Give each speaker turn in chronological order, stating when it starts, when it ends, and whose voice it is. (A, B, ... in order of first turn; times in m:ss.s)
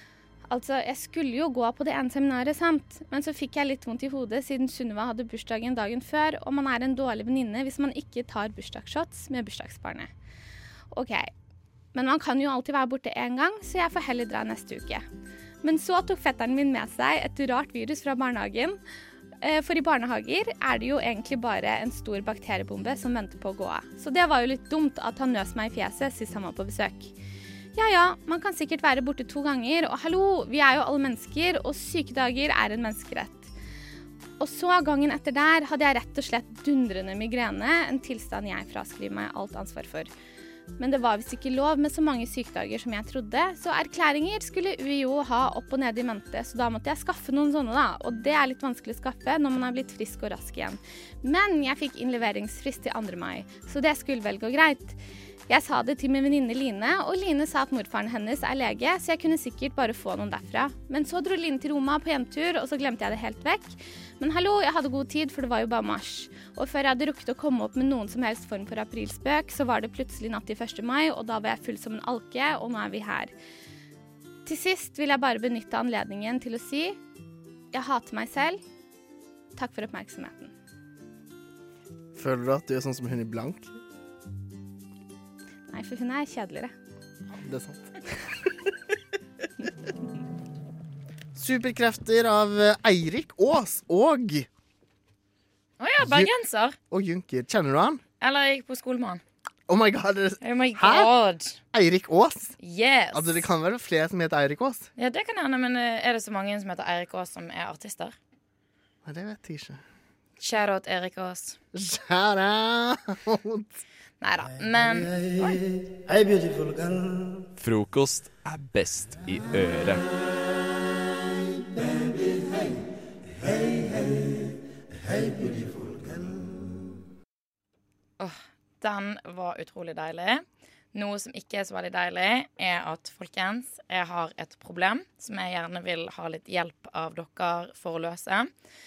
0:00.5-0:10.1 A
0:10.9-0:11.3 A
0:12.0-0:15.0 A
0:15.6-0:18.8 A
0:19.4-0:27.1 A
0:27.8-0:33.5 A
0:34.4-0:40.1 A
0:40.8-0:55.0 A
0:55.5-1:13.3 A
1:14.5-1:17.0 A
1:17.7-1:18.6 A
1:19.6-1:20.5 A
1:22.2-1:23.7 B
1:25.7-1:26.7 A
1:27.3-1:27.9 B
1:31.4-1:34.5 B
1:35.8-1:36.8 C
1:36.0-1:36.3 B
1:36.9-1:38.0 B
1:38.2-1:39.2 C
1:39.7-1:41.1 B
1:40.4-1:41.6 C
1:41.7-1:42.6 B
1:42.6-1:43.5 C
1:43.1-1:44.9 B
1:45.0-1:48.2 C
1:49.0-1:49.8 B
1:50.4-1:51.6 C
1:51.7-1:53.8 B
1:54.2-1:55.2 C
1:56.1-1:57.0 B
1:57.6-2:00.0 D
2:08.2-2:18.5 C